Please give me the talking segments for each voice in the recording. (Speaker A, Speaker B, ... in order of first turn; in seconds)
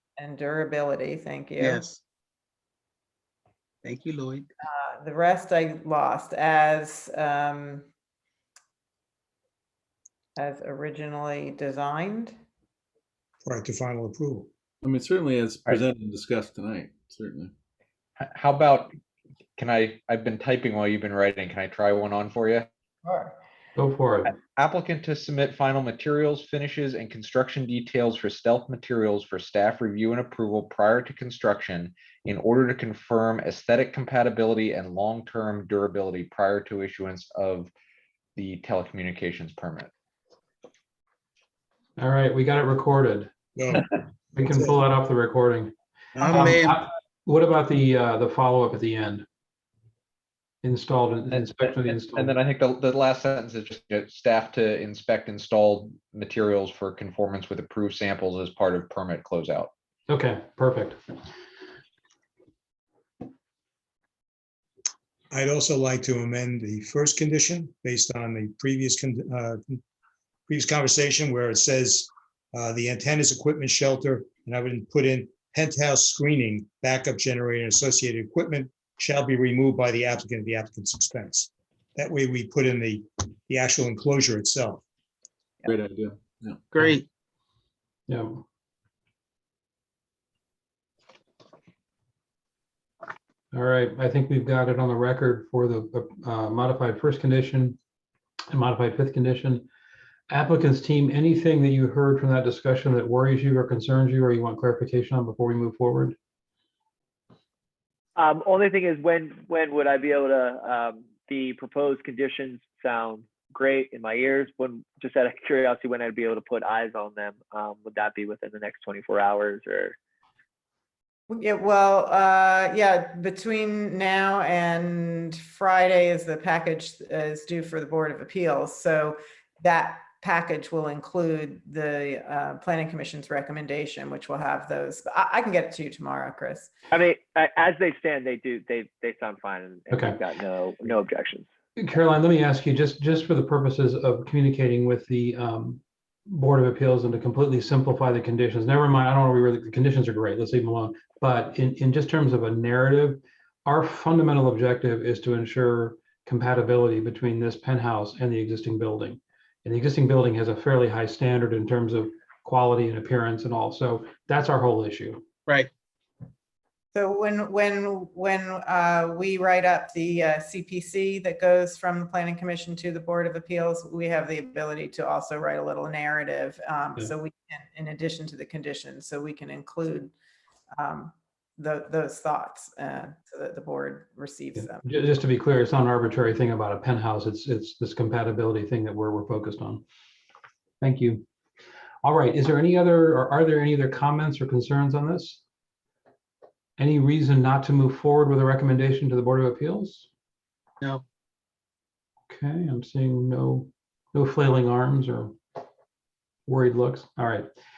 Speaker A: 0.2-1.9, 4.8-7.9, 10.4-12.3, 23.0-23.4, 121.3-136.7, 166.9-180.1, 180.7-184.8
Speaker B: 1.6-2.0, 3.8-4.5, 46.2-46.7, 86.7-87.0
Speaker C: 13.4-14.5, 43.6-43.9, 44.4-44.8, 65.3-69.8, 70.5-84.8
Speaker D: 14.8-17.5, 85.7-86.7
Speaker E: 18.2-18.9, 19.6-22.7, 24.3-37.7, 38.4-39.9, 51.3-59.7
Speaker F: 23.8-24.3, 42.0-43.8, 44.4-49.3, 50.6-52.3, 60.1-61.0, 88.1-88.4, 93.5-97.8, 98.5-99.7, 100.3-106.2, 139.9-140.2, 141.8-165.2, 184.6-189.8, 190.8-191.2, 192.0-195.4, 196.8-200.1, 202.3-205.4, 206.5-207.5
Speaker G: 108.2-120.0, 136.9-141.5